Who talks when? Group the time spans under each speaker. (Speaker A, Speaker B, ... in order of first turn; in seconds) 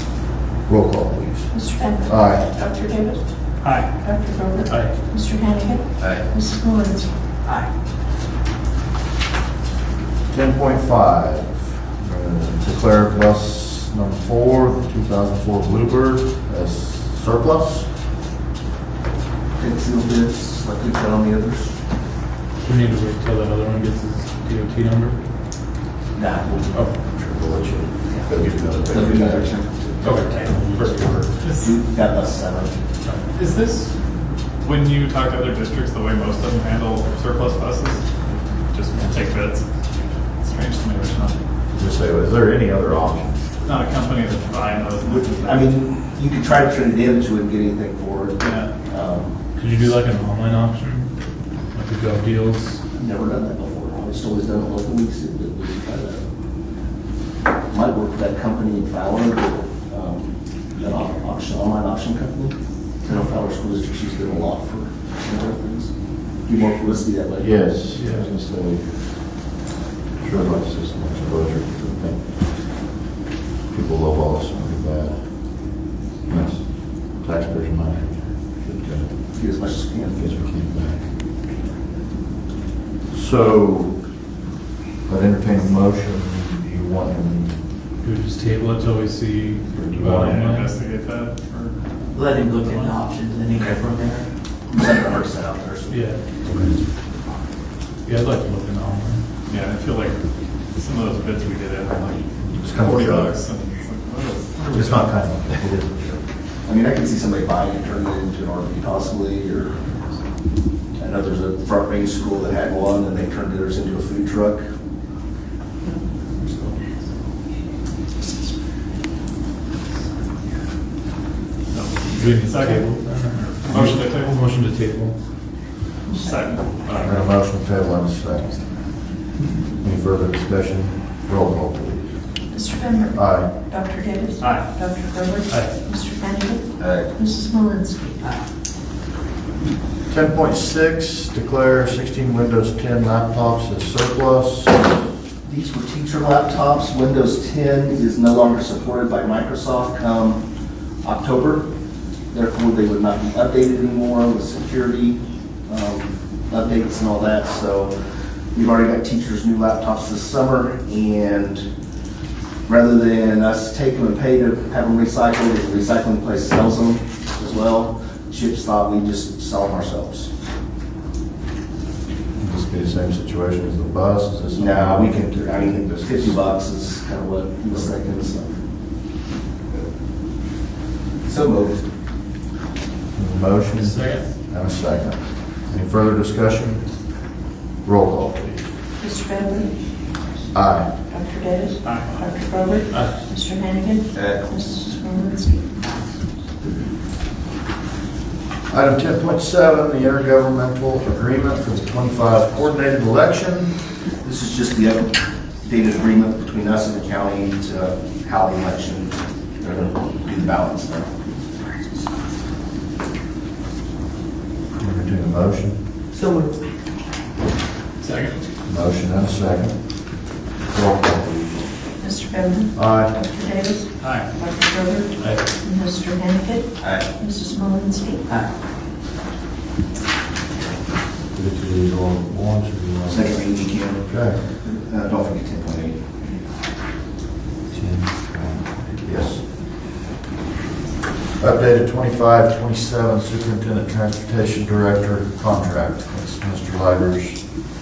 Speaker A: 0.7-2.6, 10.3-17.9, 27.1-29.5, 30.5-31.2, 41.7-43.4, 67.4-69.0, 70.2-72.9, 73.7-75.7, 76.3-79.2, 80.2-81.1, 83.1-84.1, 85.0-87.6, 89.7-90.4, 96.4-96.8, 102.5-103.3, 104.7-106.2, 127.0-128.6, 129.8-132.3, 133.1-133.5, 140.1-144.9, 172.4-176.4, 177.7-178.0, 183.2-187.1, 187.8-188.7, 190.5-190.9, 198.7-203.7, 214.8-215.8, 218.7-220.0, 220.6-221.6, 222.7-223.2, 231.3-233.5, 234.0-234.4, 237.7-239.5, 241.4-247.5
Speaker B: 2.8-3.1, 4.1-7.1, 132.6-133.1, 133.7-135.3, 135.8-136.7, 137.2-138.2, 189.0-189.7, 191.3-191.7, 192.4-194.0, 194.6-195.6, 222.1-222.7, 223.3-223.8, 224.5-225.1, 225.6-226.7, 227.2-228.2
Speaker C: 3.6-3.9, 33.3-33.9, 34.6-38.1, 38.7-41.4, 43.6-45.8, 48.4-48.7, 90.0-92.9, 99.5-105.3, 121.7-124.3, 126.1-127.3, 134.4-135.1, 191.8-192.6, 218.0-218.4, 224.0-224.5
Speaker D: 4.7-4.9, 22.6-25.2, 30.0-31.3, 49.6-51.1, 51.7-52.8, 67.9-68.3, 88.0-90.7, 95.9-96.2, 98.0-99.2, 122.1-125.2, 135.5-135.8, 183.8-184.2, 192.9-193.2, 225.2-225.4
Speaker E: 19.6-21.7, 26.1-26.8, 28.1-30.5, 31.5-32.8, 45.0-49.4, 52.9-56.2, 57.7-65.9, 66.4-67.5, 79.3-80.3, 94.7-96.0, 106.6-109.8, 111.0-114.6, 145.4-150.4, 151.0-151.7, 152.3-157.9, 158.5-161.7, 162.7-170.3, 174.5-178.5, 181.2-181.8, 194.1-194.4, 204.2-211.1, 233.1-236.0
Speaker F: 92.1-94.2, 216.1-216.6